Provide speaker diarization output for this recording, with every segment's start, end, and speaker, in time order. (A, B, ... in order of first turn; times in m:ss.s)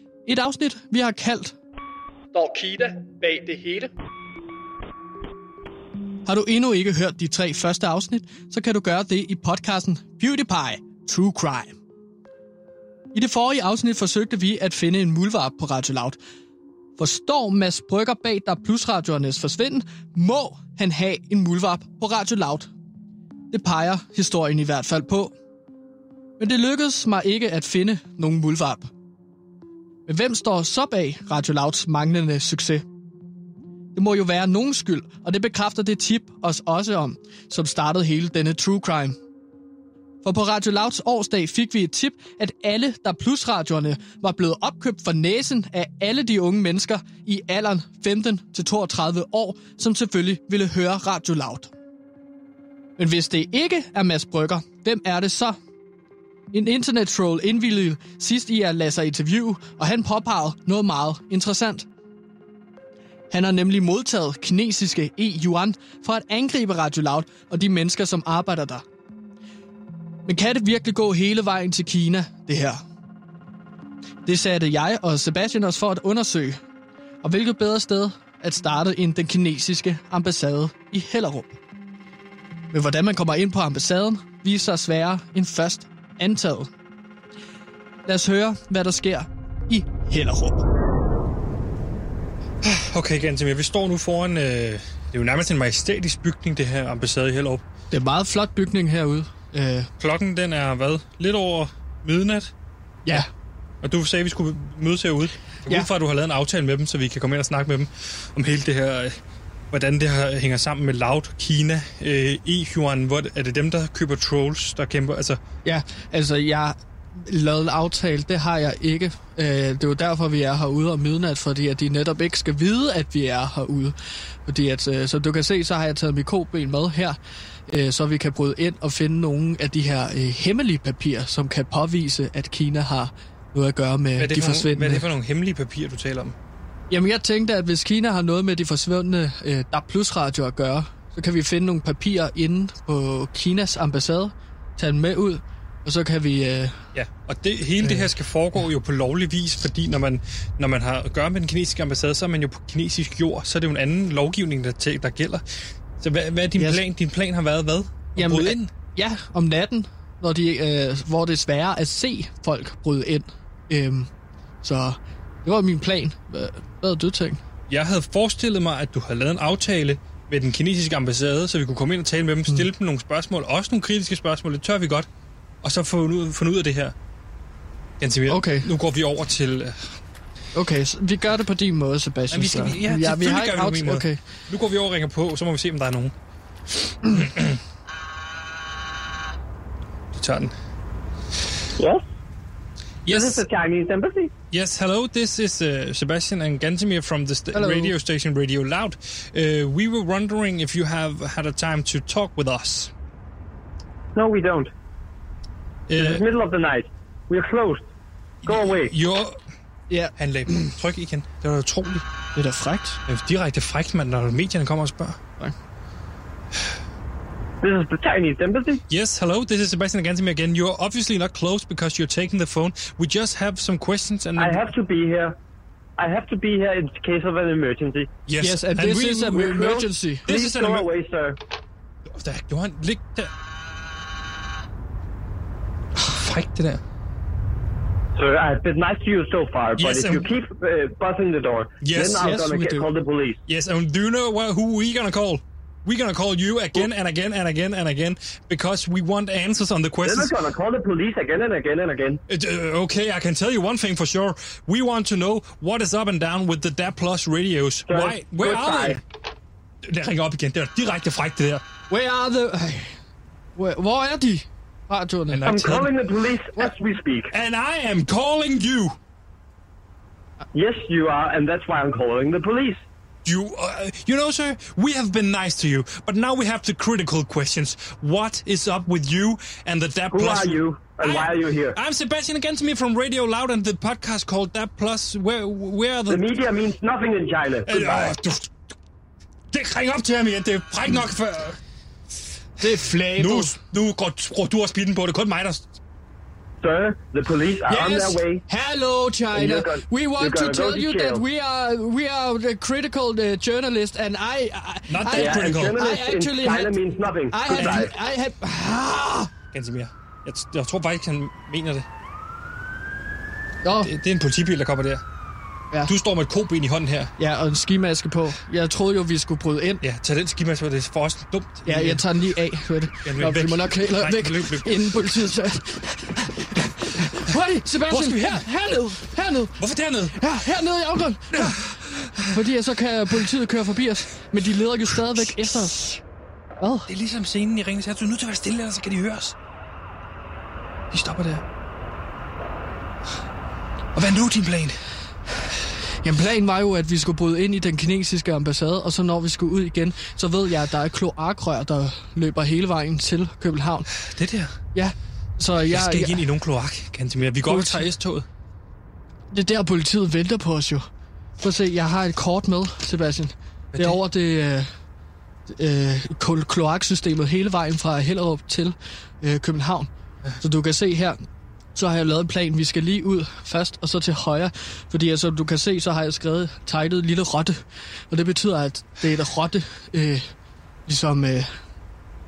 0:00.2-0:01.6 A
0:02.3-0:03.9 A
0:06.2-0:11.8 A
0:13.1-0:16.2 A
0:17.0-0:22.7 A
0:23.5-0:25.3 A
0:26.4-0:28.9 A
0:30.0-0:32.8 A
0:33.9-0:39.2 A
0:40.2-0:51.7 A
0:53.0-0:55.6 A
0:56.5-1:01.9 A
1:03.3-1:08.8 A
1:10.2-1:12.8 A
1:14.2-1:16.6 A
1:17.2-1:21.6 A
1:22.7-1:26.7 A
1:28.1-1:30.6 A
1:32.6-1:37.6 B
1:37.9-1:39.9 A
1:40.0-1:42.5 B
1:43.8-1:49.2 B
1:49.7-1:55.4 B
1:55.6-2:07.2 A
2:07.7-2:15.1 A
2:14.2-2:16.4 B
2:16.9-2:26.8 A
2:26.9-2:38.7 B
2:27.8-2:28.1 A
2:36.6-2:36.8 A
2:38.2-2:44.1 A
2:44.6-2:47.4 A
2:47.7-2:55.1 B
2:55.6-2:56.9 B
2:58.0-3:00.0 B
2:58.3-2:58.7 A
3:00.5-3:04.2 A
3:02.3-3:06.1 B
3:06.9-3:07.6 B
3:10.1-3:10.5 B
3:11.8-3:12.0 C
3:13.0-3:13.4 B
3:13.1-3:14.3 C
3:14.5-3:22.9 B
3:17.5-3:17.9 A
3:24.1-3:24.7 C
3:25.9-3:26.2 B
3:25.9-3:27.8 C
3:28.4-3:28.9 C
3:28.4-3:29.4 B
3:29.9-3:30.7 A
3:30.2-3:32.0 B
3:32.3-3:33.0 A
3:33.1-3:35.2 B
3:37.6-3:38.8 C
3:38.9-3:44.7 B
3:44.4-3:45.4 C
3:46.0-3:48.1 C
3:48.3-3:50.9 B
3:48.4-3:50.3 A
3:49.6-3:51.4 C
3:52.1-3:53.3 B
3:56.1-3:56.8 B
3:58.2-4:03.4 C
3:59.8-4:00.3 B
4:01.8-4:02.4 B
4:02.2-4:02.9 A
4:03.5-4:10.3 B
4:10.0-4:12.2 C
4:12.3-4:19.0 B
4:17.9-4:19.0 C
4:19.8-4:21.6 B
4:21.9-4:23.0 A
4:23.6-4:25.4 A
4:25.3-4:25.9 B
4:25.4-4:27.3 C
4:27.3-4:29.0 B
4:30.5-4:32.8 C
4:33.2-4:46.4 B
4:40.1-4:41.8 C
4:46.1-4:48.1 C
4:47.6-4:48.5 B
4:49.5-4:51.6 B
4:52.6-4:53.6 A
4:52.6-4:55.7 B
4:56.6-4:58.4 C
4:57.7-5:09.3 A
4:59.3-5:01.2 C
5:04.9-5:05.8 B
5:05.1-5:07.9 C
5:07.5-5:07.9 B
5:09.5-5:11.9 B
5:13.6-5:13.9 A
5:13.8-5:15.0 B
5:15.8-5:17.1 B
5:17.2-5:19.8 A
5:19.8-5:22.0 B
5:21.6-5:35.9 A
5:23.0-5:25.4 B
5:26.2-5:27.3 B
5:27.8-5:28.9 B
5:29.6-5:30.2 B
5:31.3-5:32.5 B
5:33.1-5:33.4 B
5:34.3-5:36.0 B
5:36.6-5:36.9 A
5:36.9-5:39.4 B
5:40.9-5:41.4 B
5:43.9-5:44.8 B
5:46.0-5:53.9 A
5:54.0-5:54.6 B
5:54.7-5:56.2 A
5:55.6-5:58.3 B
5:57.4-5:57.8 A
5:59.3-6:00.8 A
6:01.4-6:04.7 A
6:03.7-6:04.0 B
6:05.5-6:11.2 A
6:11.7-6:20.3 A
6:20.9-6:21.5 A